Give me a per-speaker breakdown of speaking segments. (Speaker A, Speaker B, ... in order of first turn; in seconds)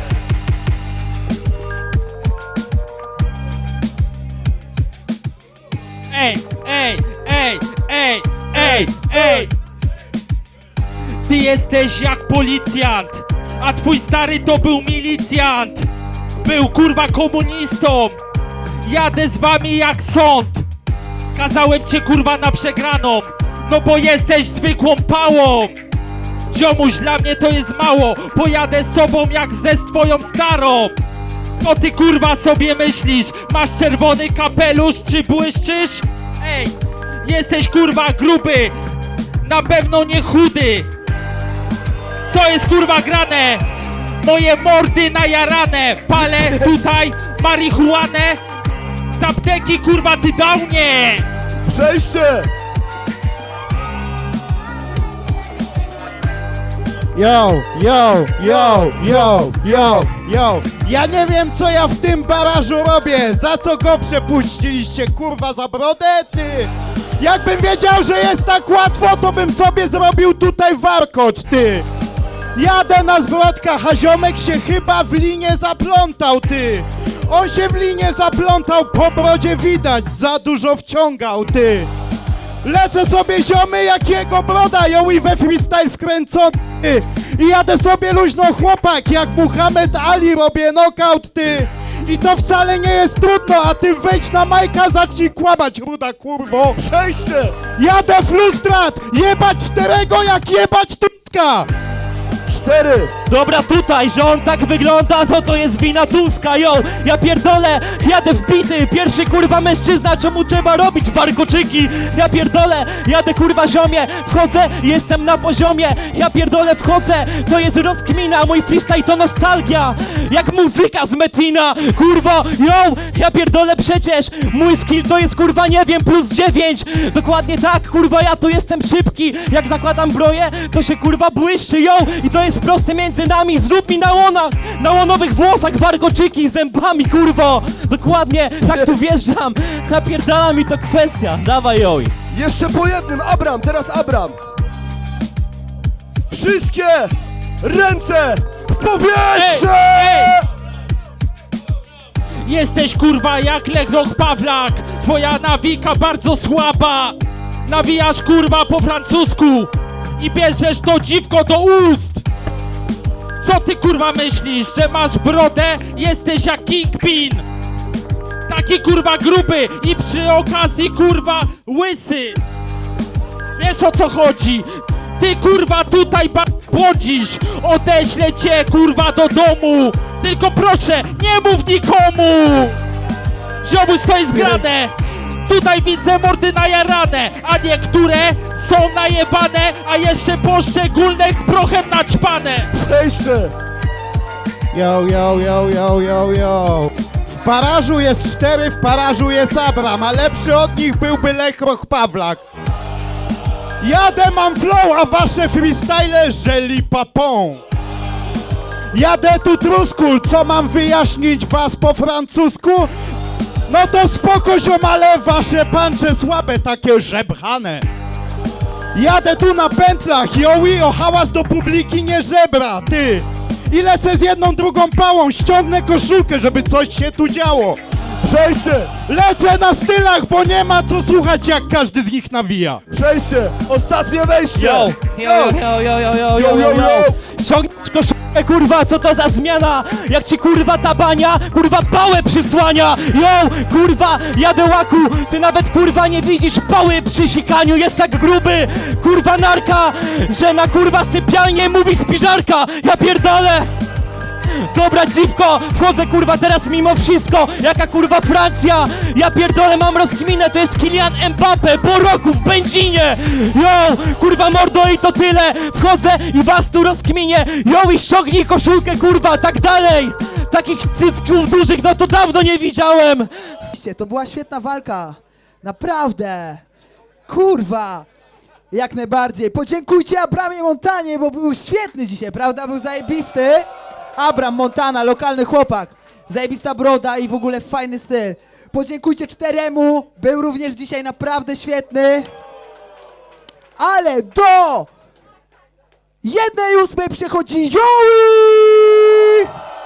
Speaker A: 6.1-9.5, 11.2-15.9, 16.4-18.2, 18.9-20.7, 21.3-25.7, 26.5-30.9, 31.6-38.7, 39.4-40.9, 42.3-43.6, 44.2-48.4, 49.2-51.2, 149.3-150.4, 152.4-162.2, 163.4-167.5, 168.5-172.4, 173.6-182.8, 183.6-184.9, 185.5-192.7
Speaker B: 51.6-52.5, 58.4-60.1, 96.8-97.6, 102.5-103.1, 138.7-139.1, 142.3-144.4, 146.3-150.4, 184.3-184.7, 192.7-193.5, 228.2-229.0, 232.9-235.6, 236.3-237.2
Speaker C: 57.1-71.9, 72.5-81.9, 82.6-96.8, 97.7-101.7, 194.7-202.4, 203.8-207.6, 208.9-212.9, 213.7-217.8, 218.9-227.8, 229.0-232.8
Speaker D: 103.3-142.1, 234.6-253.7, 254.5-273.3
Speaker E: 273.7-276.6, 277.3-278.1, 278.7-292.3, 293.8-294.9, 296.2-299.5